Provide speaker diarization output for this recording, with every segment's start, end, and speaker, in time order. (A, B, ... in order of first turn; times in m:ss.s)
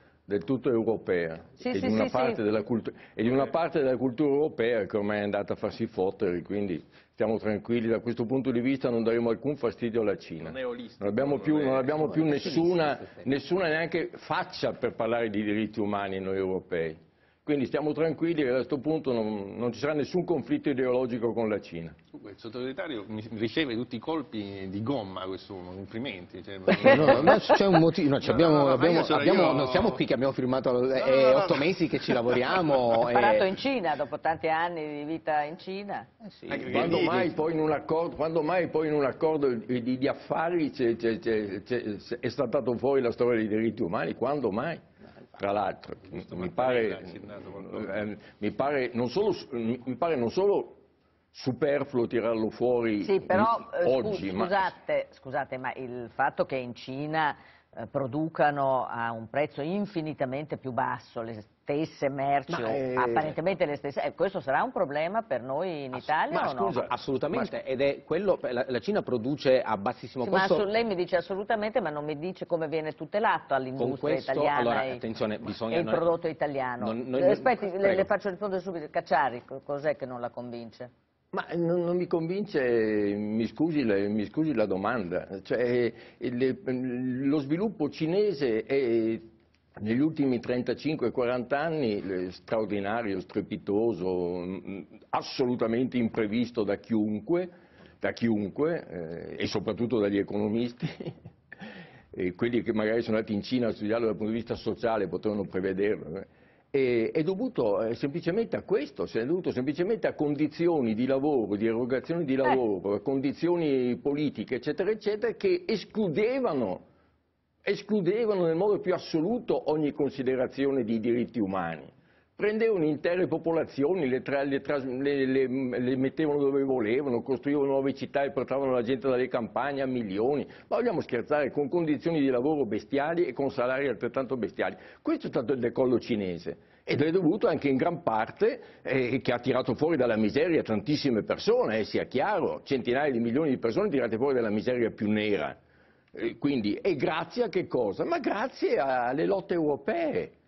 0:00.3-0:22.0 A
0:01.6-0:02.4 B
0:03.2-0:03.5 C
0:10.4-0:12.7 C
0:12.0-0:13.3 D
0:22.1-0:27.6 C
0:26.8-0:33.6 D
0:28.2-0:30.0 C
0:31.0-0:32.8 C
0:33.1-0:36.1 B
0:36.2-0:37.2 D
0:36.5-0:37.4 C
0:36.7-0:44.8 A
0:45.4-0:50.8 A
0:46.1-0:48.0 C
0:51.3-0:54.7 A
0:53.0-1:06.8 B
1:02.5-1:03.4 A
1:06.3-1:07.5 A
1:06.9-1:10.7 D
1:10.2-1:15.0 B
1:13.8-1:16.1 D
1:15.7-1:20.9 B
1:16.8-1:18.1 D
1:21.3-1:29.2 A
1:29.8-1:41.2 A
1:42.1-1:56.9 A
1:57.6-2:25.6 A
2:26.2-2:30.3 A